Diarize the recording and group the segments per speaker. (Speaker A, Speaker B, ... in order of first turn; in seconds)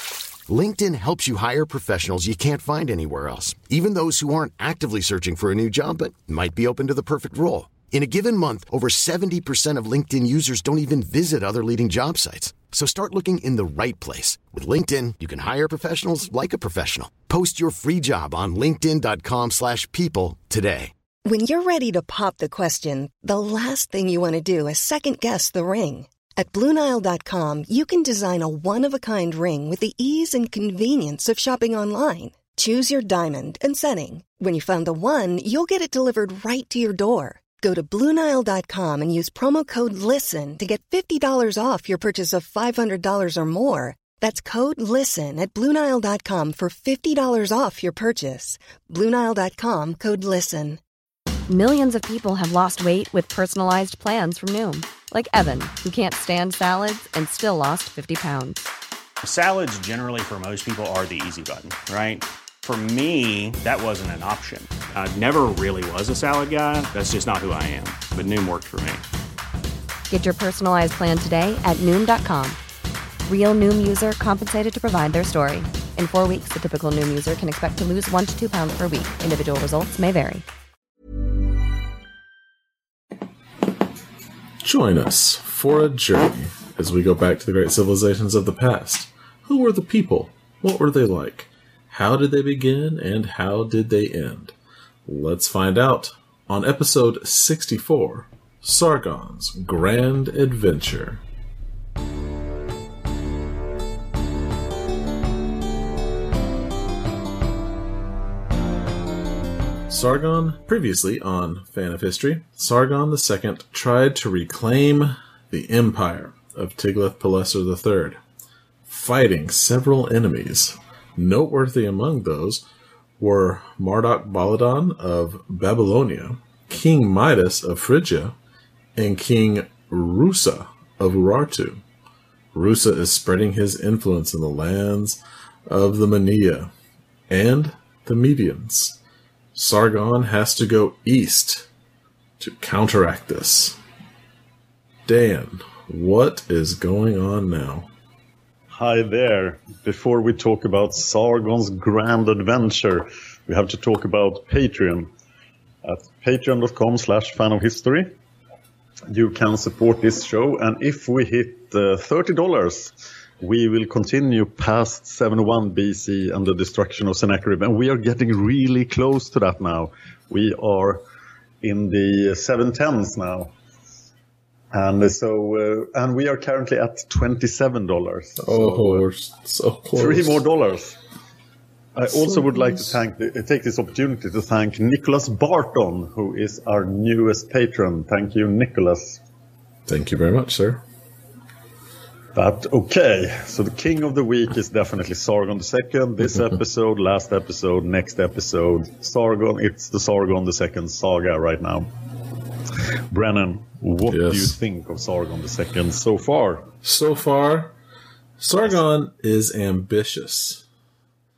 Speaker A: 0.5-20.9
Speaker B: 21.2-50.8
Speaker C: 51.5-58.6, 70.1-72.6, 73.3-80.5
Speaker D: 59.2-69.0
Speaker E: 84.6-94.5, 95.1-101.2, 109.9-118.2, 118.9-122.6, 123.2-128.4, 129.0-131.8, 132.5-136.7, 137.3-139.0, 139.6-141.7, 142.4-143.8, 145.1-147.9, 178.4-180.4, 182.3-182.9, 189.9-190.8, 204.1-204.5, 206.8-207.7, 208.4-210.6
Speaker F: 148.7-155.1, 155.8-158.1, 159.1-171.0, 171.6-173.5, 174.7-179.1, 180.0-181.0, 181.9-189.2, 192.3-201.9, 203.1-206.7